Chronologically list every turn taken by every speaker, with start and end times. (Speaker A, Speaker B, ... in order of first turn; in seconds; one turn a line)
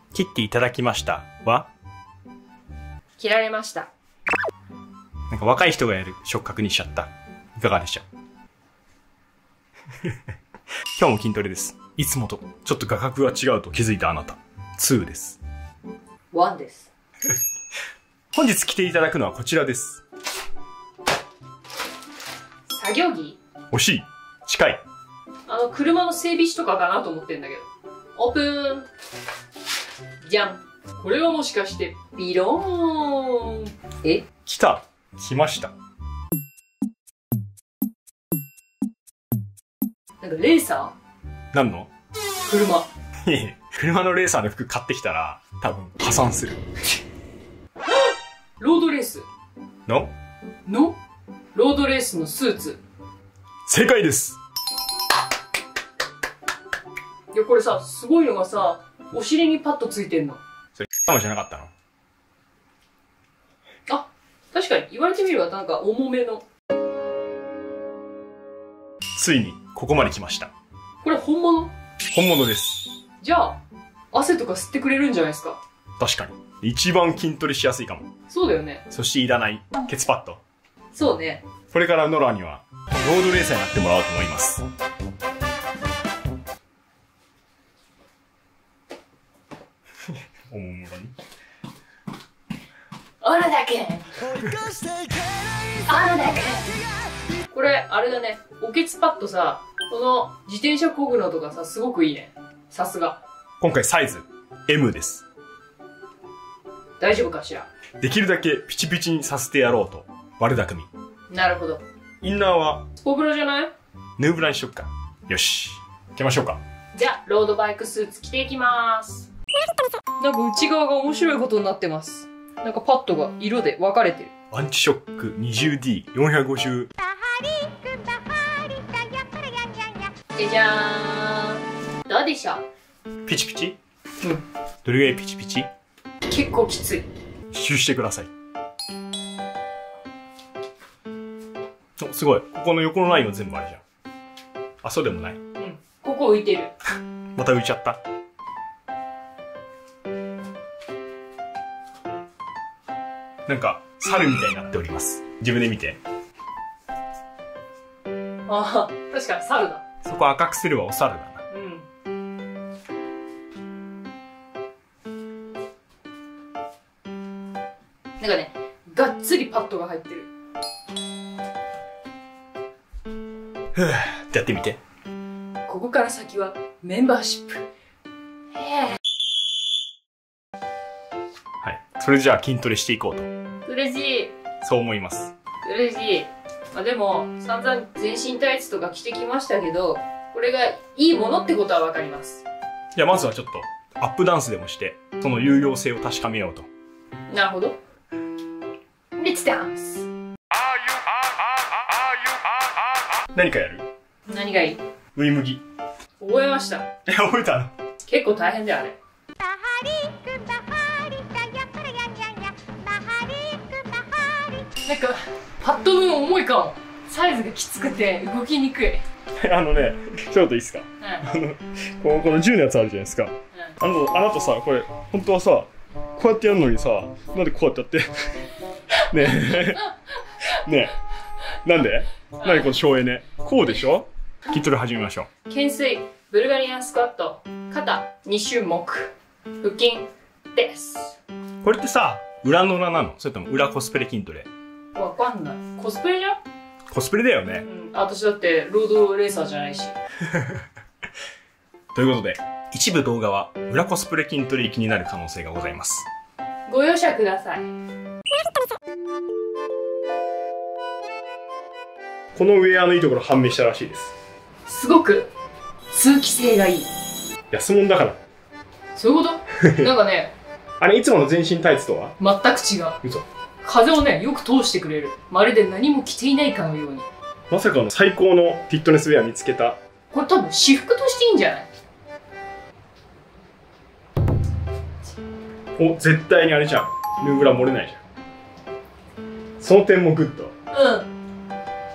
Speaker A: 0.1-1.7
Speaker B: 3.2-3.9
Speaker A: 5.3-8.1
Speaker A: 10.9-15.4
Speaker B: 16.3-16.9
Speaker A: 18.3-20.0
Speaker B: 22.7-23.4
Speaker A: 23.7-24.8
Speaker B: 25.5-28.9
Speaker B: 30.2-34.3
Speaker A: 34.5-35.7
Speaker B: 40.2-41.0
Speaker A: 41.5-41.9
Speaker B: 42.5-42.9
Speaker A: 43.2-46.6
Speaker B: 48.6-49.3
Speaker A: 49.9-50.1
Speaker B: 50.7-51.0
Speaker B: 51.5-52.8
Speaker A: 53.7-54.4
Speaker B: 57.3-60.4
Speaker A: 60.8-61.7
Speaker B: 63.9-66.4
Speaker A: 69.2-70.5
Speaker B: 71.0-71.7
Speaker A: 72.1-73.0
Speaker B: 73.2-73.6
Speaker B: 74.1-75.6
Speaker A: 76.0-78.1
Speaker B: 78.3-78.8
Speaker A: 78.9-80.4
Speaker B: 80.9-81.5
Speaker A: 81.7-84.6
Speaker A: 90.5-91.1
Speaker B: 93.2-94.1
Speaker B: 95.8-96.8
Speaker B: 97.5-103.2
Speaker A: 103.6-105.2
Speaker B: 107.0-107.7
Speaker A: 108.0-110.9
Speaker B: 111.3-111.8
Speaker A: 112.2-112.9
Speaker B: 113.0-113.7
Speaker A: 114.2-116.6
Speaker B: 117.0-119.3
Speaker B: 120.2-124.3
Speaker A: 124.5-126.9
Speaker B: 130.4-132.7
Speaker A: 133.3-133.8
Speaker A: 134.8-135.7
Speaker B: 136.3-137.1
Speaker A: 137.5-138.3
Speaker A: 142.0-143.8
Speaker A: 144.8-145.4
Speaker B: 145.6-146.7
Speaker A: 147.4-148.0
Speaker A: 153.5-156.0
Speaker B: 158.5-159.8
Speaker A: 160.0-161.4
Speaker B: 161.5-161.9
Speaker B: 168.2-170.3
Speaker A: 173.8-174.8
Speaker B: 175.7-177.7
Speaker B: 178.6-179.0
Speaker A: 181.6-183.3
Speaker B: 183.7-184.3
Speaker A: 184.6-185.3
Speaker B: 185.6-192.4
Speaker A: 192.9-196.7
Speaker B: 197.3-197.8
Speaker B: 199.2-200.1
Speaker A: 203.3-203.9
Speaker B: 204.3-204.8
Speaker A: 205.2-205.6
Speaker B: 206.2-206.9
Speaker A: 207.1-207.7
Speaker B: 208.0-209.0
Speaker B: 214.8-219.0
Speaker A: 219.4-229.9
Speaker A: 230.5-231.0
Speaker A: 231.6-235.3
Speaker B: 232.4-232.8
Speaker B: 235.5-241.2
Speaker A: 241.6-244.5
Speaker B: 244.9-246.4
Speaker A: 246.9-247.7
Speaker B: 247.7-250.0
Speaker A: 250.3-250.6
Speaker A: 251.9-256.1
Speaker B: 256.7-257.7
Speaker A: 262.3-264.1
Speaker B: 264.7-265.3
Speaker B: 265.9-266.9
Speaker A: 267.5-268.2
Speaker B: 268.9-270.3
Speaker A: 269.6-269.9
Speaker A: 270.8-272.2
Speaker B: 272.2-273.0
Speaker B: 273.6-277.1
Speaker A: 277.5-279.8
Speaker B: 280.1-281.7
Speaker A: 285.8-288.0
Speaker A: 289.6-290.5
Speaker B: 290.7-291.1